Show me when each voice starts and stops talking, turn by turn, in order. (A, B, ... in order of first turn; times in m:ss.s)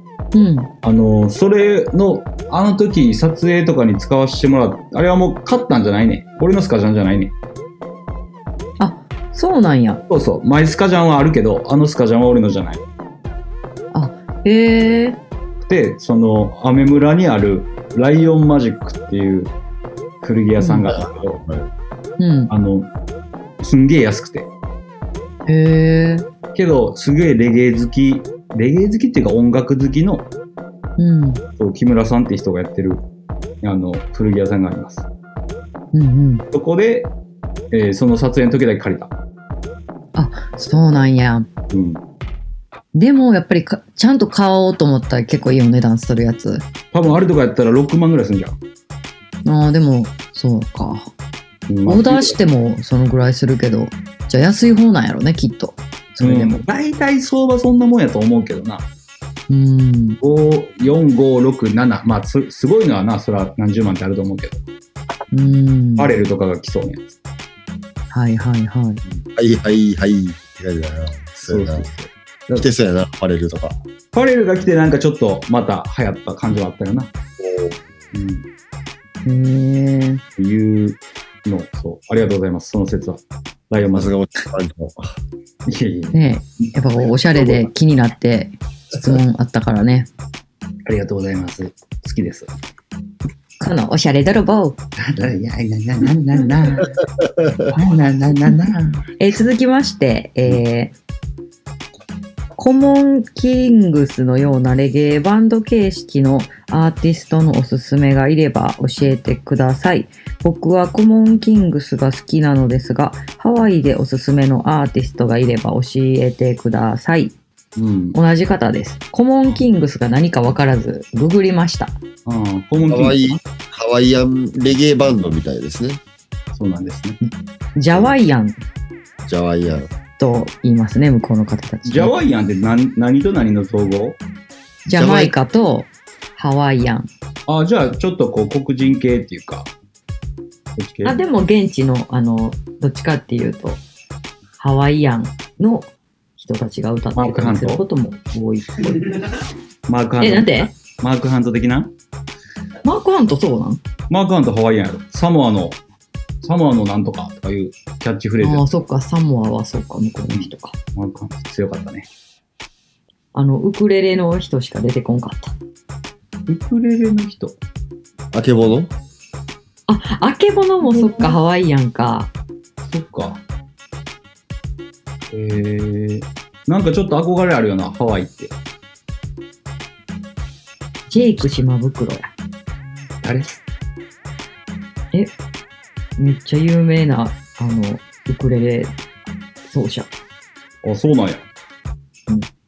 0:00.3-0:00.7 A
0:00.8-0:07.3 B
0:08.8-0:10.0 A
0:10.1-0:12.8 B
0:13.9-0:15.2 A
0:15.6-0:19.5 B
0:20.2-0:21.4 B
0:20.6-0:20.9 A
0:20.9-0:21.7 C
0:22.2-0:22.5 A
0:22.5-0:22.9 B
0:23.6-0:24.5 B
0:25.5-0:26.2 A
0:26.6-0:30.3 B
0:31.0-0:31.4 A
0:31.6-0:33.1 B
0:33.6-0:35.1 B
0:35.9-0:36.4 A
0:36.5-0:37.1 B
0:37.7-0:39.1 B
0:40.1-0:41.5 A
0:41.7-0:42.0 B
0:42.9-0:46.6 A
0:46.9-0:48.6 B
0:49.4-0:51.1 A
0:51.7-0:52.4 B
0:51.9-0:56.6 A
0:56.2-0:58.9 B
0:59.5-1:00.2 A
1:00.2-1:04.6 B
1:05.3-1:06.1 A
1:06.0-1:07.1 B
1:08.1-1:09.0 A
1:09.4-1:11.9 C
1:11.4-1:12.7 B
1:12.5-1:13.8 C
1:14.1-1:17.1 B
1:17.4-1:17.8 C
1:18.1-1:18.5 B
1:19.2-1:20.2 A
1:20.4-1:24.2 B
1:23.9-1:25.2 C
1:25.6-1:26.2 B
1:26.1-1:30.1 A
1:30.9-1:32.5 B
1:33.6-1:34.8 A
1:35.0-1:36.9 B
1:37.2-1:37.7 C
1:37.7-1:39.1 B
1:39.2-1:40.9 A
1:42.6-1:57.4 A
1:57.8-1:58.2 B
1:58.1-2:02.0 A
2:02.3-2:03.4 B
2:02.9-2:06.0 C
2:06.5-2:07.2 B
2:07.2-2:08.6 A
2:09.3-2:09.9 C
2:10.2-2:12.1 A
2:11.9-2:14.2 B
2:14.9-2:17.1 A
2:14.9-2:15.4 C
2:17.5-2:19.7 B
2:20.8-2:21.2 B
2:21.0-2:23.8 A
2:24.6-2:29.1 A
2:27.2-2:27.8 B
2:29.9-2:31.9 B
2:30.2-2:30.7 A
2:32.8-2:33.8 A
2:34.1-2:35.8 B
2:36.4-2:38.6 B
2:38.4-2:40.8 A
2:40.4-2:42.1 B
2:43.3-2:45.6 A
2:46.5-2:47.6 B
2:48.3-2:48.9 C
2:49.9-2:52.3 A
2:52.8-2:53.4 B
2:55.3-2:58.5 B
3:01.1-3:02.3 A
3:03.2-3:03.5 B
3:06.2-3:08.9 A
3:09.6-3:10.1 A
3:10.8-3:11.5 B